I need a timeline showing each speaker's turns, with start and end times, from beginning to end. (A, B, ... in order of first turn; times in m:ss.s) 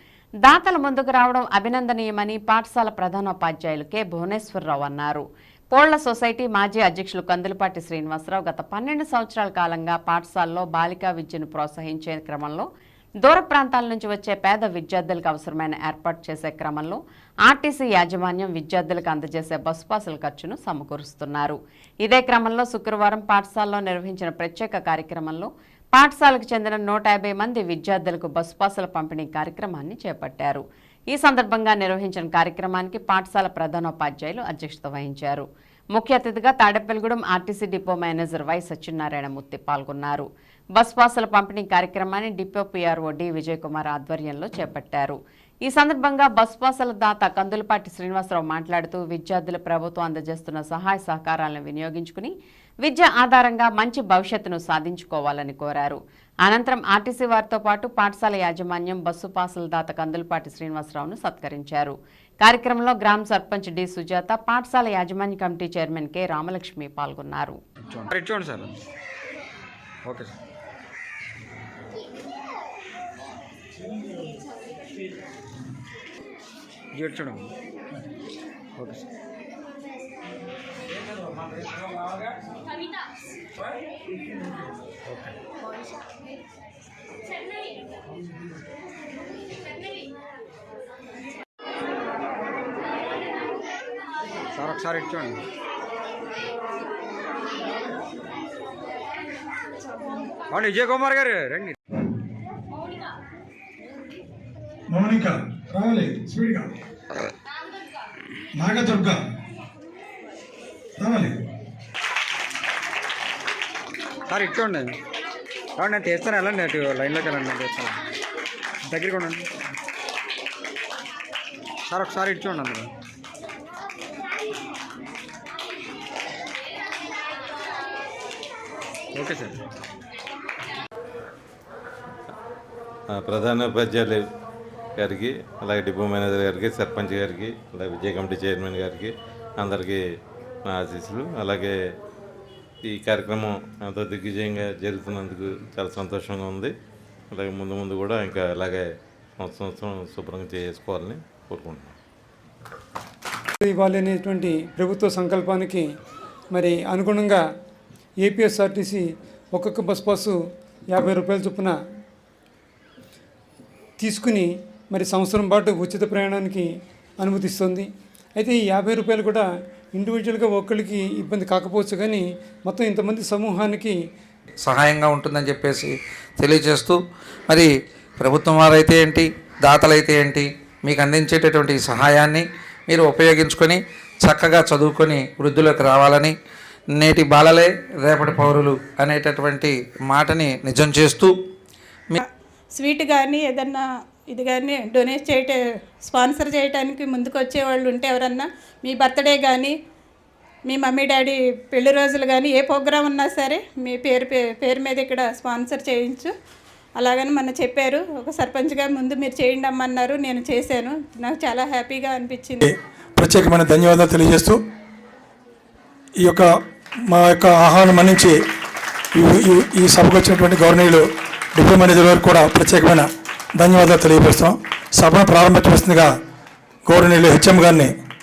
0:00.4-0:12.7 A
0:13.2-1:07.6 A
1:07.9-1:08.7 B
1:10.0-1:10.3 B
1:16.9-1:17.5 B
1:18.8-1:19.0 B
1:21.8-1:22.0 B
1:25.1-1:25.3 B
1:34.6-1:35.4 B
1:40.5-1:41.8 B
1:44.9-1:46.7 C
1:48.6-1:49.2 C
1:51.0-1:51.4 C
1:54.3-1:55.0 B
1:55.8-1:58.0 B
1:58.9-1:59.5 B
2:01.9-2:02.9 B
2:09.2-2:09.6 B
2:13.1-2:14.2 D
2:15.0-2:20.0 D
2:20.6-2:21.8 D
2:22.8-2:26.7 D
2:27.3-2:28.9 D
2:29.4-2:31.9 D
2:33.6-2:35.8 E
2:36.5-2:37.4 E
2:38.2-2:40.4 E
2:40.9-2:41.7 E
2:44.0-2:46.7 E
2:47.2-2:54.0 E
2:54.6-2:57.0 F
2:57.5-3:06.3 F
3:06.9-3:11.3 F
3:12.8-3:19.8 G
3:20.7-3:26.3 G
3:27.0-3:32.7 G
3:32.6-3:34.6 C
3:36.2-3:36.5 C
3:37.1-3:38.4 C
3:39.1-3:46.1 C
3:46.8-3:47.9 C